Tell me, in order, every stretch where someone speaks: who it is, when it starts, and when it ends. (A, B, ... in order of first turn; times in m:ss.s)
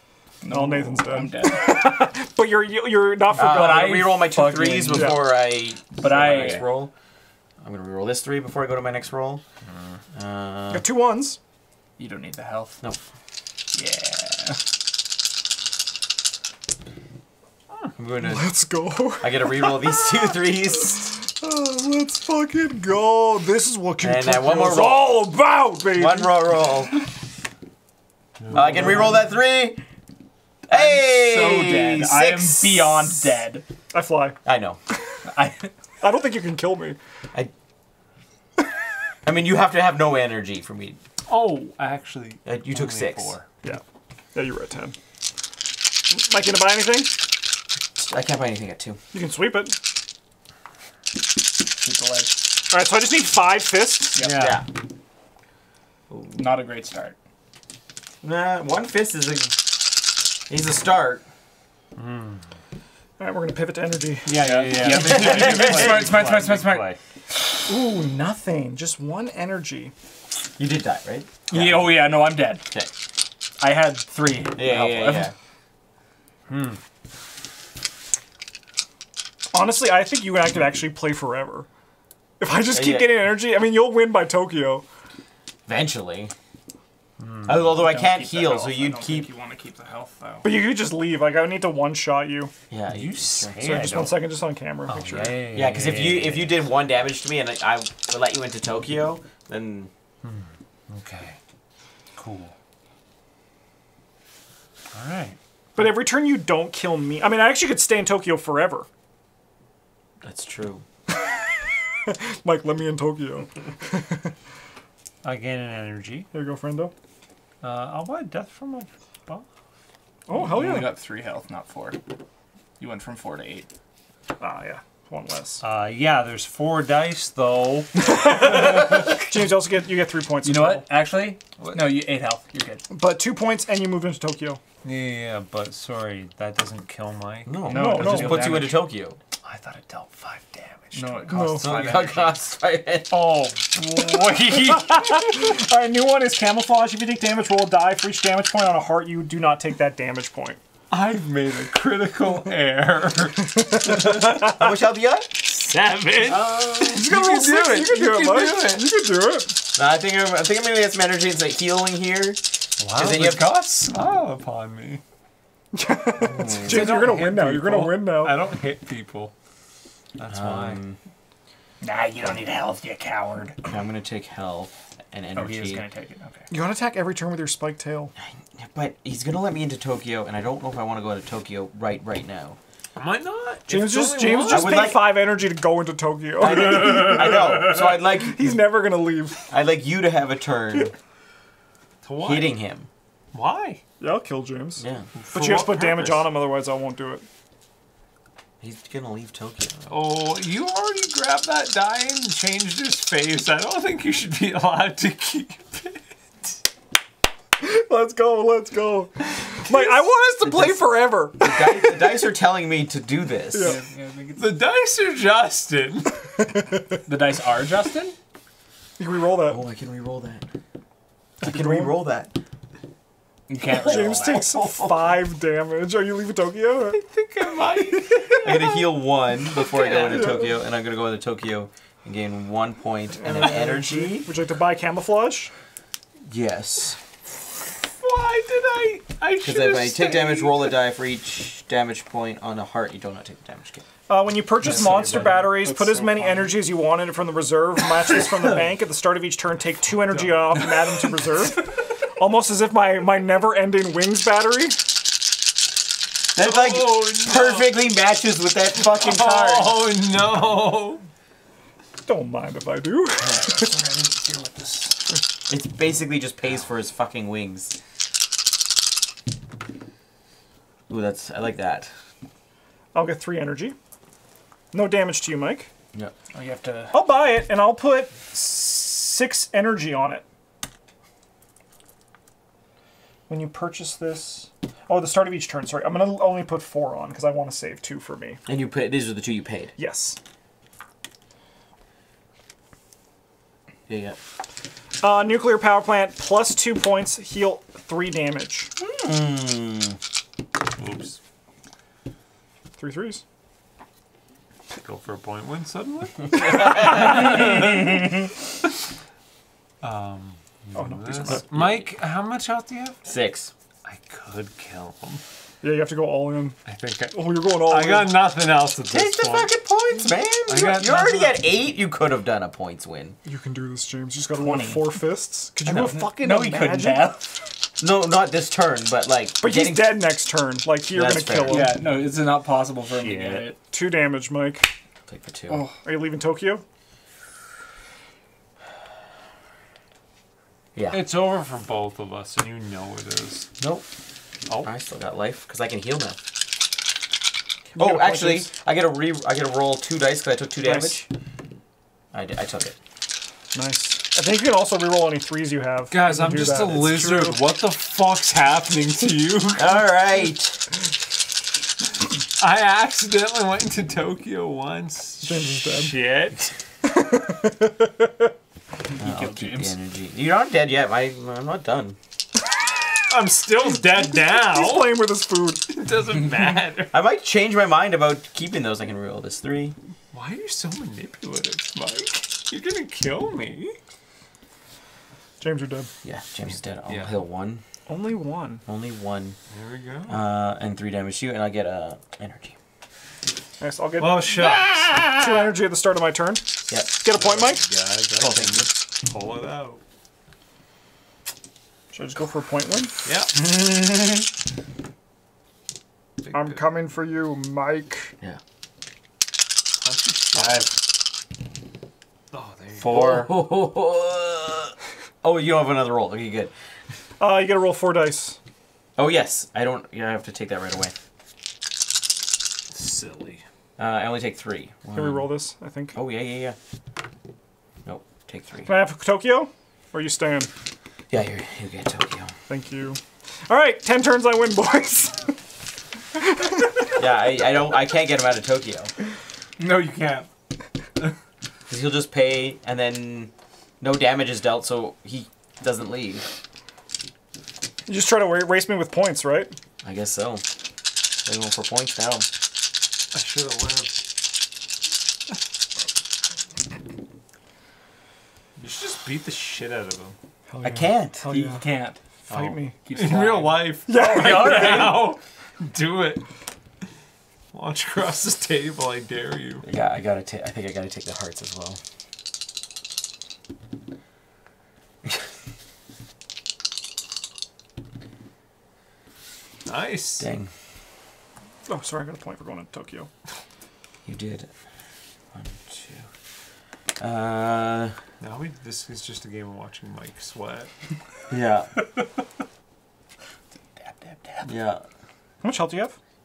0:00.4-0:01.8 A
0:00.5-0:04.0 B
0:03.3-0:05.3 A
0:03.4-0:06.9 C
0:04.9-0:05.2 B
0:06.0-0:06.7 A
0:07.6-0:09.4 C
0:09.7-0:10.0 D
0:10.1-0:10.9 C
0:10.7-0:11.4 B
0:12.0-0:12.8 A
0:13.7-0:14.6 A
0:18.0-0:18.5 C
0:18.2-0:20.3 B
0:19.2-0:21.2 C
0:21.2-0:26.5 B
0:24.0-0:25.3 C
0:26.0-0:27.0 C
0:28.4-0:29.2 D
0:28.5-0:29.8 C
0:30.7-0:33.2 C
0:30.7-0:33.6 A
0:33.9-0:34.4 B
0:34.4-0:34.8 C
0:35.2-0:35.7 A
0:36.0-0:37.0 B
0:39.2-0:41.0 C
0:41.3-0:43.5 D
0:42.4-0:43.4 C
0:44.4-0:45.0 B
0:46.1-0:47.1 B
0:48.0-0:49.0 C
0:49.1-0:49.8 B
0:51.8-0:52.4 A
0:52.7-0:54.2 B
0:54.2-0:54.6 A
0:54.2-0:54.6 D
0:54.4-0:54.7 C
0:56.1-0:57.2 A
0:58.2-1:01.2 C
1:02.0-1:02.5 D
1:03.2-1:04.4 B
1:04.3-1:07.0 D
1:04.3-1:06.9 A
1:04.8-1:06.1 C
1:07.7-1:09.9 B
1:10.6-1:12.9 C
1:11.5-1:12.7 A
1:13.6-1:15.3 A
1:14.6-1:15.3 C
1:16.5-1:16.8 D
1:19.5-1:21.7 B
1:22.4-1:24.8 B
1:22.7-1:23.1 C
1:25.7-1:26.3 C
1:27.2-1:27.7 D
1:27.5-1:29.3 C
1:27.7-1:30.5 A
1:30.4-1:32.5 B
1:32.7-1:33.9 C
1:32.9-1:34.3 D
1:33.6-1:35.4 B
1:34.9-1:36.6 D
1:35.5-1:39.9 C
1:40.2-1:41.4 D
1:42.2-1:42.5 D
1:44.9-1:45.4 D
1:45.8-1:48.9 B
1:50.2-1:50.8 C
1:52.1-1:54.3 B
1:55.2-1:56.3 D
1:56.3-1:56.9 B
1:57.6-1:59.4 D
2:00.3-2:00.9 B
2:00.3-2:02.0 A
2:02.8-2:03.7 A
2:04.4-2:05.6 B
2:05.6-2:08.1 D
2:08.0-2:10.9 B
2:10.4-2:12.8 A
2:11.6-2:12.0 D
2:12.9-2:14.6 B
2:14.8-2:17.6 D
2:17.5-2:19.2 C
2:17.7-2:18.8 A
2:17.7-2:18.7 B
2:19.4-2:21.3 D
2:20.9-2:22.4 A
2:21.3-2:21.9 B
2:21.5-2:23.1 C
2:23.6-2:24.8 D
2:23.9-2:30.6 B
2:30.9-2:34.3 D
2:33.6-2:34.7 B
2:33.9-2:35.5 C
2:35.5-2:38.9 D
2:36.6-2:39.6 B
2:39.7-2:42.4 C
2:42.8-2:45.0 D
2:43.0-2:43.9 C
2:45.7-2:48.4 B
2:46.2-2:47.1 C
2:46.6-2:49.3 D
2:50.2-2:50.8 D
2:50.3-2:51.0 C
2:51.8-2:53.7 A
2:53.7-2:55.8 C
2:55.4-2:56.5 A
2:56.5-2:58.1 B
2:58.5-3:02.6 C
3:03.0-3:04.9 D
3:03.7-3:09.5 B
3:04.5-3:05.3 C
3:06.4-3:08.6 C
3:09.5-3:10.9 C
3:12.0-3:12.6 D
3:12.2-3:12.9 C
3:13.3-3:13.8 D
3:14.0-3:17.3 B
3:14.8-3:15.1 C
3:15.2-3:16.3 D
3:18.6-3:19.9 C
3:19.9-3:26.0 D
3:27.6-3:31.7 B
3:30.4-3:33.8 C
3:33.5-3:33.8 B
3:33.6-3:34.6 A
3:34.4-3:36.3 D
3:36.4-3:37.0 B
3:37.1-3:38.2 A
3:39.0-3:39.6 B
3:39.5-3:40.5 C
3:41.4-3:42.0 B
3:41.4-3:42.4 C
3:43.5-3:44.5 A
3:43.8-3:47.0 B
3:44.2-3:44.6 D
3:46.9-3:48.8 D
3:47.6-3:48.6 B
3:48.4-3:54.3 C
3:49.6-3:50.5 D
3:50.0-3:50.6 B
3:53.2-3:55.5 B
3:56.3-3:57.0 C
3:58.0-4:00.8 D
3:59.4-4:03.8 C
4:04.1-4:14.8 B
4:04.7-4:05.4 D
4:04.9-4:06.6 A
4:10.1-4:10.4 D
4:16.4-4:19.8 C
4:16.4-4:17.8 D
4:18.8-4:21.0 D
4:22.0-4:23.8 B
4:23.3-4:25.0 A
4:25.5-4:27.8 C
4:30.9-4:31.9 C
4:32.9-4:33.8 B
4:34.7-4:35.7 B
4:36.3-4:37.0 A
4:36.9-4:40.2 B
4:43.3-4:48.4 B
4:48.5-4:49.7 C
4:49.8-4:50.2 B
4:53.9-4:54.2 C
4:55.0-4:58.7 B
4:58.8-5:00.0 C
5:00.7-5:01.2 D
5:02.8-5:03.2 B
5:04.7-5:08.0 D
5:06.4-5:07.2 C
5:09.8-5:13.0 D
5:10.7-5:11.4 B
5:11.3-5:11.9 C
5:13.0-5:13.5 C
5:13.8-5:15.2 D
5:15.6-5:16.6 B
5:16.6-5:19.5 D
5:17.1-5:18.2 B
5:18.9-5:23.2 C
5:20.5-5:21.4 D
5:23.2-5:27.2 B
5:24.4-5:25.0 A
5:25.7-5:26.0 C
5:25.8-5:27.4 A
5:27.8-5:30.0 C
5:29.4-5:31.8 B
5:30.9-5:31.7 C
5:31.4-5:33.6 A
5:32.9-5:33.5 D
5:33.7-5:34.7 B
5:35.1-5:35.6 C
5:35.5-5:35.8 A
5:35.8-5:36.6 B
5:40.8-5:41.0 C
5:40.9-5:43.5 D
5:43.6-5:43.8 C
5:44.6-5:46.2 C
5:47.7-5:51.1 C
5:47.8-5:48.5 B
5:50.6-5:51.0 B
5:52.1-5:52.8 C
5:53.5-5:57.4 B
5:55.9-5:59.8 D
5:59.6-6:00.6 C
6:02.4-6:06.5 D
6:05.2-6:06.0 B
6:06.8-6:08.3 B
6:08.9-6:09.7 A
6:09.0-6:12.0 C
6:13.1-6:15.1 D
6:13.7-6:15.6 B
6:15.7-6:17.0 D
6:16.9-6:19.8 C
6:20.1-6:23.8 D
6:25.4-6:25.9 B
6:26.0-6:27.6 C
6:26.9-6:27.2 D
6:27.9-6:28.6 B
6:28.7-6:29.4 C
6:29.5-6:30.3 D
6:30.1-6:32.6 C
6:33.6-6:37.6 B
6:34.0-6:35.2 D
6:36.7-6:37.0 C
6:37.1-6:39.8 D
6:38.2-6:38.7 C
6:41.9-6:42.9 B
6:43.0-6:43.4 D
6:43.4-6:44.2 A
6:46.2-6:46.7 D
6:46.3-6:48.1 B
6:49.8-6:50.7 D
6:50.3-6:50.7 A
6:52.3-6:52.9 D
6:52.8-6:53.3 A
6:52.9-6:56.5 C
6:57.2-6:58.4 B
6:59.0-7:00.9 C
7:02.7-7:03.4 D
7:03.8-7:05.3 C
7:04.9-7:06.0 B
7:05.9-7:06.6 C
7:07.8-7:08.7 C
7:08.7-7:10.5 B
7:11.1-7:12.3 C
7:12.5-7:15.4 B
7:16.2-7:16.8 B
7:17.0-7:18.9 C
7:19.6-7:20.3 A
7:21.7-7:26.2 C
7:27.9-7:29.6 B
7:29.8-7:30.4 C
7:31.2-7:32.3 C
7:33.1-7:34.0 D
7:38.6-7:40.2 D
7:40.5-7:41.6 B
7:40.6-7:41.2 C
7:41.3-7:45.0 A
7:42.3-7:42.8 B
7:42.9-7:46.2 D
7:43.9-7:45.1 B
7:47.5-7:49.7 D
7:49.6-7:51.8 C
7:59.7-8:00.3 D
8:00.2-8:00.5 C
8:01.7-8:03.1 B
8:04.0-8:04.5 C
8:05.3-8:06.1 C
8:07.0-8:08.0 C
8:08.2-8:10.7 D
8:11.3-8:11.7 C
8:14.4-8:14.8 C
8:15.4-8:16.0 B